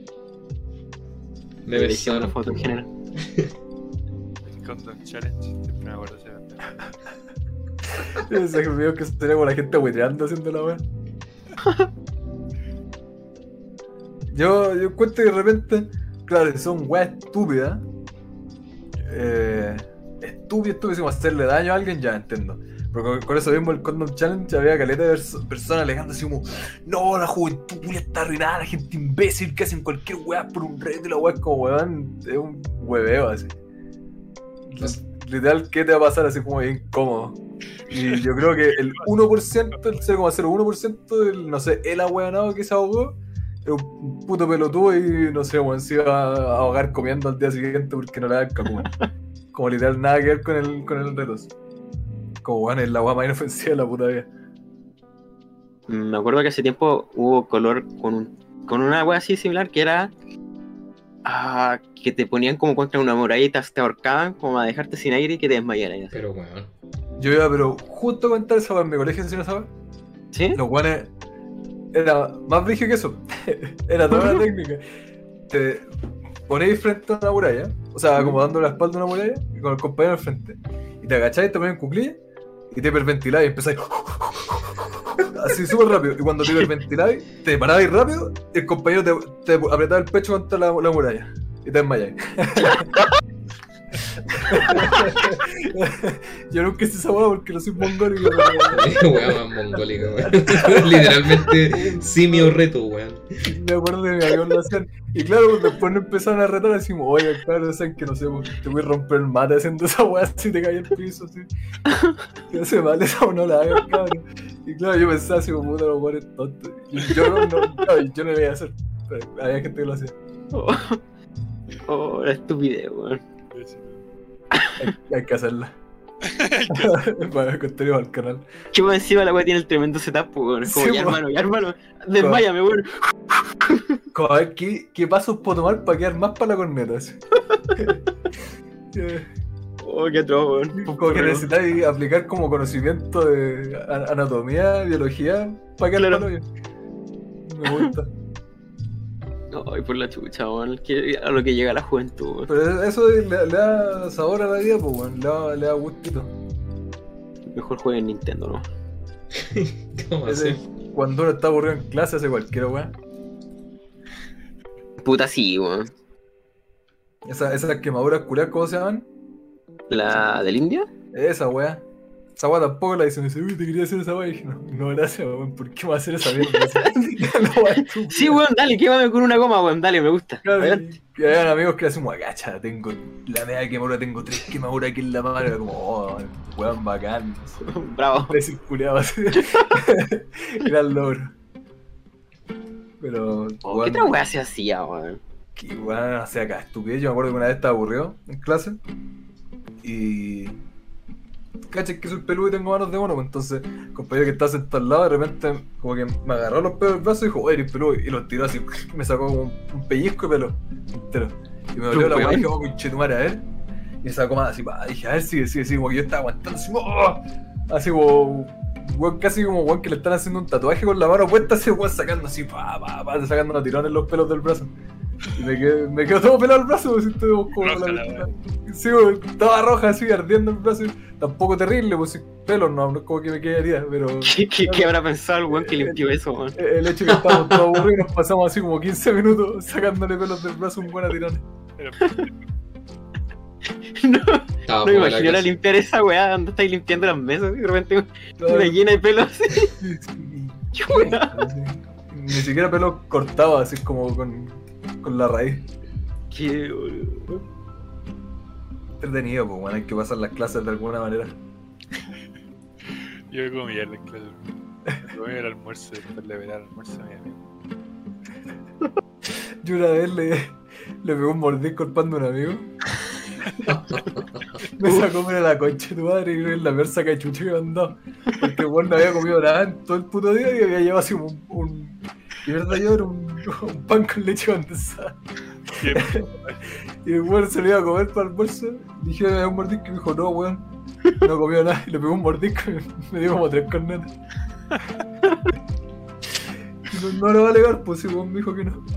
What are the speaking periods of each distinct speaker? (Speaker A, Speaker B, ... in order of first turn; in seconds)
Speaker A: 1.6-3.5, 66.1-66.7, 98.7-103.4, 159.3-160.6, 244.7-245.5, 273.6-274.4
Speaker B: 1.7-2.9, 11.6-11.9, 55.9-60.1, 61.2-66.1, 70.3-70.6, 111.9-112.2, 120.5-121.0, 121.8-123.2, 124.5-124.8, 128.7-132.9, 133.6-134.0, 139.8-141.5, 145.9-146.3, 149.5-152.5, 157.5-158.7, 165.0-165.9, 169.9-170.9, 176.4-176.9, 178.1-180.8, 187.6-188.4, 189.3-189.7, 193.6-195.2, 211.9-212.5, 234.2-237.5, 242.0-242.3, 243.9-249.8, 250.7-251.4, 256.3-257.4
Speaker C: 4.5-6.9, 38.7-39.0, 123.5-124.0, 126.2-127.0, 227.5-228.3, 241.8-242.3, 263.3-264.5, 265.0-267.4, 285.7-286.6
Speaker D: 8.0-10.8, 14.3-17.8, 19.0-33.5, 34.7-37.4, 37.9-49.0, 49.5-51.5, 52.4-54.3, 67.2-69.7, 70.5-71.1, 71.9-74.8, 75.5-82.2, 82.7-93.1, 94.3-102.5, 103.4-111.5, 112.5-120.1, 124.8-125.8, 126.7-128.4, 130.6-131.2, 132.2-132.4, 134.1-137.2, 138.9-139.3, 140.7-146.4, 147.4-148.1, 152.5-156.3, 160.2-162.9, 167.2-169.1, 171.1-178.4, 180.4-191.3, 193.0-194.1, 195.6-198.8, 199.8-200.6, 201.7-213.4, 214.0-224.7, 225.3-234.9, 235.5-236.0, 236.5-241.4, 248.4-248.8, 249.8-255.7, 259.0-261.4, 269.6-272.7, 274.8-285.2, 285.8-286.2, 287.0-290.7, 291.2-294.1, 296.8-298.8